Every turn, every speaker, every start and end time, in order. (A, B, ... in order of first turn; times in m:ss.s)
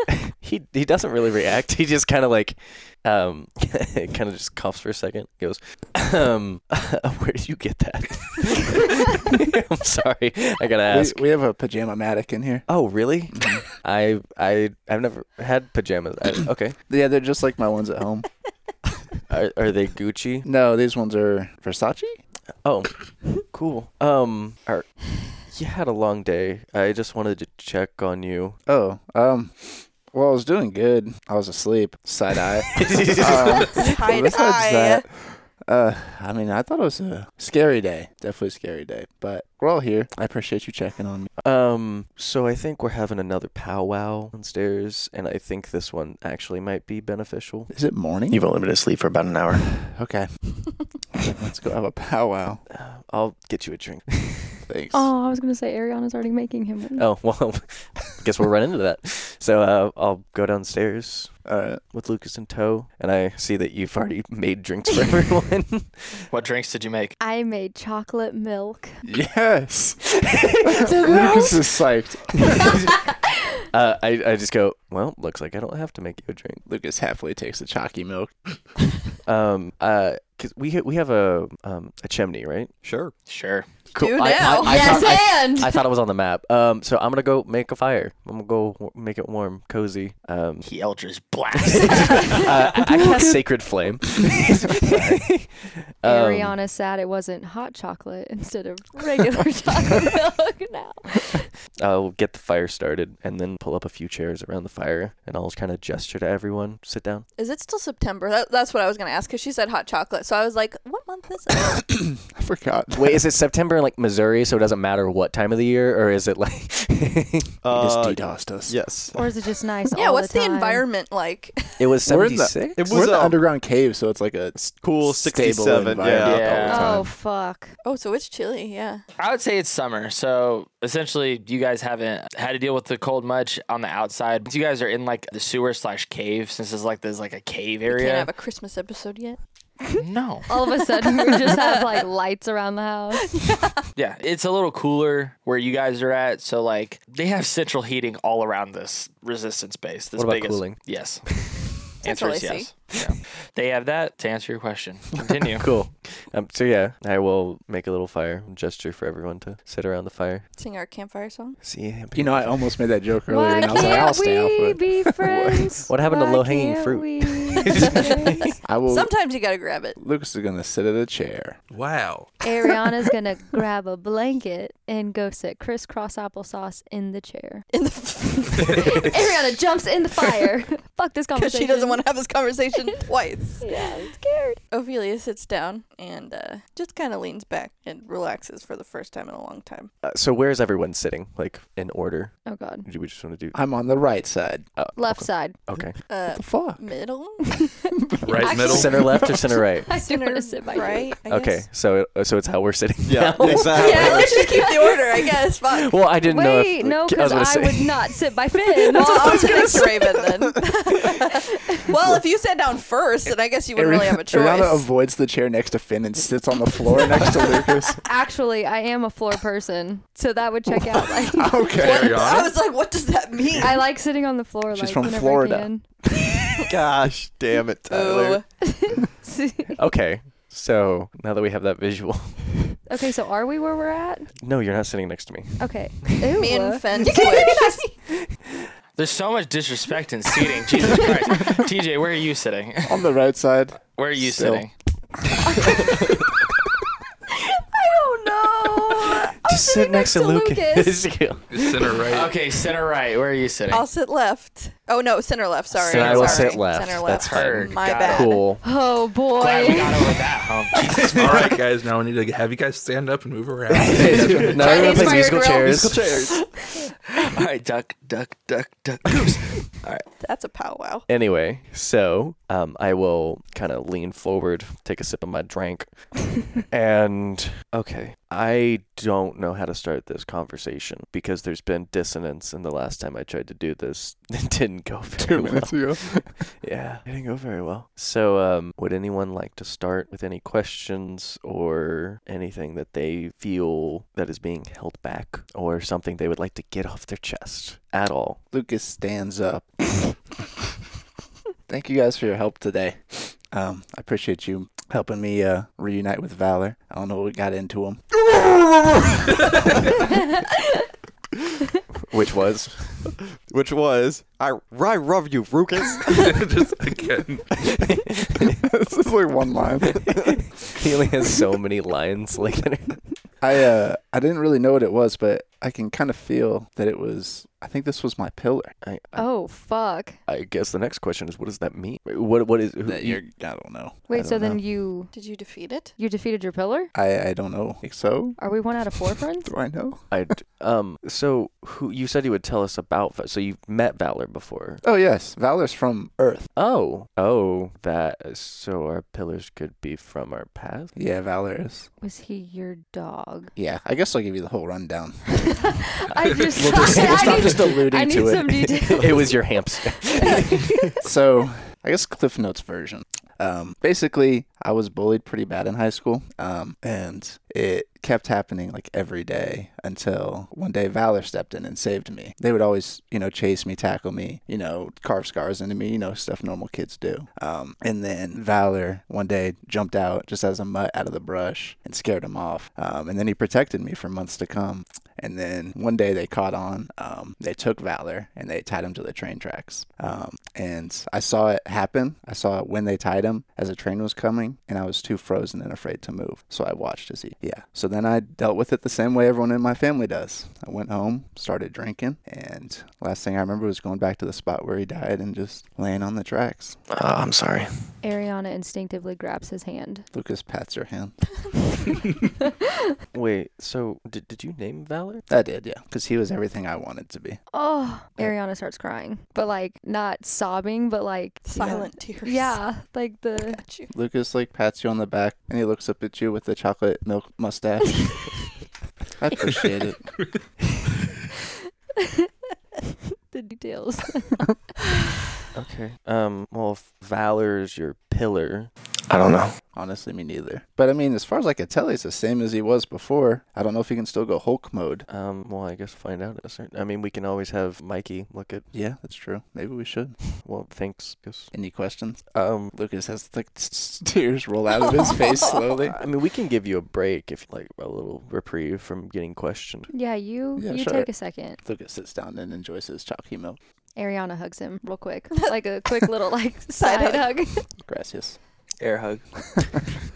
0:00.4-0:11.2 A
0:10.9-0:12.7 B
0:12.7-0:16.8 A
0:13.3-0:13.6 B
0:16.9-0:18.3 B
0:19.3-0:20.5 A
0:20.4-0:22.2 B
0:22.6-0:24.9 A
0:25.5-0:28.6 A
0:28.7-0:41.3 B
0:32.7-0:34.0 A
0:33.7-0:35.1 C
0:41.4-0:47.7 A
0:47.7-0:48.4 B
0:48.3-0:49.7 D
0:49.8-0:50.3 B
0:51.2-0:52.6 B
0:52.7-0:54.6 A
0:54.7-0:55.1 B
0:54.9-0:57.1 E
0:57.0-1:01.3 A
1:01.5-1:01.8 B
1:01.9-1:06.2 A
1:06.3-1:07.2 F
1:07.2-1:09.0 E
1:09.0-1:12.8 B
1:10.3-1:11.5 A
1:10.9-1:11.4 E
1:12.4-1:13.1 A
1:13.7-1:16.6 A
1:16.7-1:18.3 B
1:19.3-1:22.7 A
1:22.8-1:23.1 G
1:23.3-1:23.7 F
1:23.9-1:25.4 C
1:23.9-1:30.7 A
1:24.5-1:25.8 E
1:30.6-1:32.7 F
1:31.5-1:36.6 A
1:36.0-1:41.5 E
1:41.8-1:47.2 A
1:47.4-1:51.8 C
1:51.6-1:53.2 B
1:53.0-1:57.5 A
1:57.6-1:59.2 G
1:57.7-1:58.8 B
1:59.1-2:00.9 E
1:59.9-2:01.8 C
2:01.8-2:02.8 A
2:02.0-2:07.0 B
2:02.8-2:03.4 G
2:04.6-2:06.8 G
2:06.2-2:06.9 F
2:06.6-2:07.1 A
2:06.7-2:07.8 E
2:07.8-2:09.0 C
2:09.2-2:18.3 F
2:17.9-2:19.4 C
2:19.9-2:20.5 F
2:20.5-2:23.3 E
2:20.6-2:21.9 C
2:23.3-2:23.8 C
2:24.0-2:31.3 F
2:30.2-2:30.8 A
2:31.9-2:35.7 F
2:32.0-2:32.7 C
2:35.5-2:40.5 A
2:40.6-2:41.6 C
2:41.6-2:42.6 A
2:42.2-2:44.9 B
2:43.3-2:48.4 E
2:45.2-2:48.6 A
2:48.6-2:49.1 B
2:48.9-2:50.0 C
2:50.0-2:51.6 B
2:51.7-2:52.4 H
2:52.4-2:57.7 E
2:57.7-2:59.0 C
2:58.6-2:59.1 A
2:58.6-3:02.0 E
3:01.3-3:04.0 C
3:03.6-3:04.6 E
3:04.7-3:09.9 C
3:10.0-3:13.6 A
3:12.5-3:12.9 E
3:13.5-3:14.7 B
3:14.8-3:16.0 A
3:15.0-3:15.6 E
3:16.1-3:17.7 C
3:16.3-3:16.9 B
3:18.2-3:19.2 H
3:18.3-3:21.2 E
3:18.5-3:19.9 A
3:19.9-3:21.7 C
3:21.3-3:24.8 A
3:23.1-3:24.5 G
3:23.6-3:25.9 C
3:25.7-3:28.2 A
3:26.3-3:30.0 E
3:28.8-3:34.9 C
3:29.1-3:29.7 A
3:33.8-3:38.0 B
3:38.0-3:41.8 E
3:41.2-3:42.3 B
3:41.7-3:42.6 H
3:41.9-3:43.9 C
3:43.6-3:45.8 E
3:44.7-3:46.3 B
3:46.7-3:48.4 G
3:47.9-3:48.4 C
3:48.6-3:49.8 E
3:49.8-3:52.7 A
3:52.9-3:54.3 E
3:54.4-3:56.3 A
3:55.6-3:57.8 E
3:56.4-3:57.8 C
3:57.2-3:57.6 A
3:59.0-4:03.0 F
4:02.8-4:04.7 B
4:04.0-4:04.7 F
4:05.5-4:05.9 E
4:07.7-4:11.1 E
4:09.3-4:11.9 A
4:11.5-4:12.4 H
4:12.1-4:13.9 F
4:13.7-4:18.4 C
4:15.7-4:18.6 A
4:15.9-4:16.5 F
4:17.0-4:18.4 F
4:18.6-4:20.1 E
4:19.4-4:21.5 F
4:21.0-4:21.4 A
4:21.1-4:24.6 H
4:23.7-4:26.1 A
4:24.2-4:26.4 G
4:24.6-4:25.7 C
4:24.6-4:25.6 E
4:27.2-4:30.1 F
4:30.2-4:31.1 C
4:31.1-4:58.4 A
4:45.2-4:46.4 B
4:58.5-5:00.2 B
5:01.7-5:08.1 B
5:12.0-5:13.2 A
5:13.5-5:16.1 G
5:16.2-5:17.6 H
5:17.9-5:18.6 A
5:18.6-5:20.4 B
5:20.0-5:23.0 A
5:23.4-5:28.8 B
5:28.8-5:29.3 A
5:29.2-5:30.2 E
5:30.3-5:33.2 A
5:32.8-5:34.6 B
5:34.1-5:35.1 E
5:34.2-5:34.6 A
5:35.1-5:36.0 C
5:36.0-5:36.9 E
5:36.9-5:38.4 B
5:38.4-5:39.5 E
5:39.4-5:40.1 B
5:40.1-5:44.8 A
5:44.8-5:46.5 B
5:46.6-5:50.9 A
5:51.0-5:51.9 B
5:52.0-5:53.5 E
5:53.6-5:55.5 B
5:55.6-5:59.4 E
5:56.6-5:59.1 B
5:56.6-5:57.9 A
5:58.9-6:00.8 A
6:00.0-6:00.9 E
6:01.0-6:46.8 B
6:46.9-6:47.7 D
6:48.0-6:50.1 E
6:50.1-6:51.2 B
6:53.1-6:55.2 A
6:55.3-6:57.4 B
6:57.5-7:03.6 E
7:01.4-7:02.6 C
7:03.5-7:03.9 C
7:03.9-7:08.3 B
7:09.2-7:10.0 B
7:13.3-7:14.5 E
7:15.6-7:18.7 A
7:19.1-7:19.6 D
7:19.7-7:25.1 B
7:25.1-7:28.7 A
7:28.7-7:30.2 B
7:30.3-7:31.5 A
7:31.5-7:36.0 B
7:32.3-7:32.7 A
7:35.3-7:35.6 C
7:35.9-7:39.9 A
7:39.9-7:41.6 E
7:40.6-7:41.1 B
7:41.6-7:43.6 B
7:44.0-7:47.6 E
7:46.8-7:47.3 C
7:47.8-7:48.4 B
7:48.8-7:49.2 F